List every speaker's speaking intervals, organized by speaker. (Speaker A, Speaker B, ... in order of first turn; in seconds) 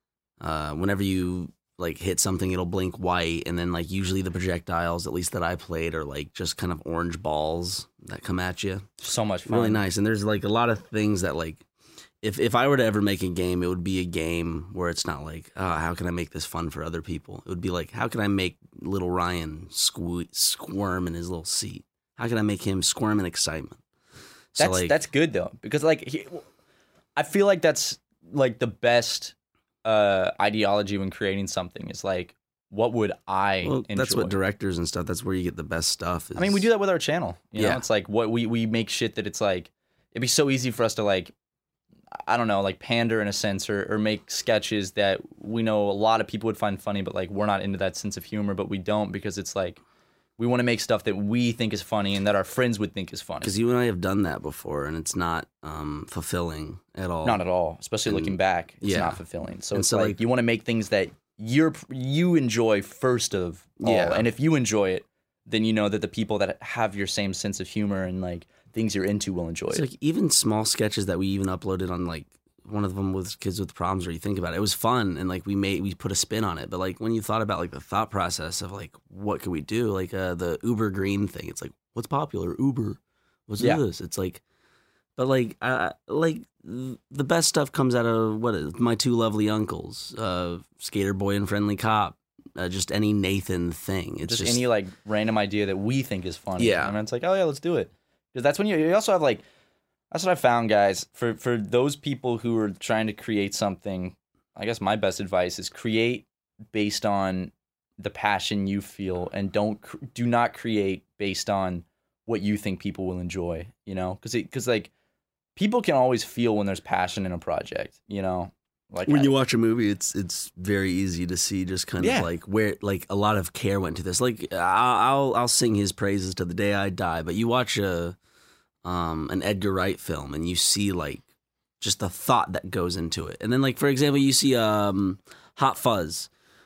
Speaker A: 0.4-8.9, 9.5-11.6, 12.2-23.8, 24.5-24.9, 33.6-36.7, 37.5-37.8, 53.4-57.4, 58.0-59.2, 59.7-60.2, 63.8-64.3, 69.7-84.4, 85.2-94.6, 96.6-97.0, 119.0-128.2, 128.8-131.2, 131.8-136.3
Speaker B: 9.0-9.8, 24.6-26.4, 27.1-29.3, 29.8-34.3, 36.4-41.3, 42.2-49.8, 50.4-53.5, 57.2-69.8, 94.2-99.4, 100.1-114.9, 115.5-119.3, 122.0-122.3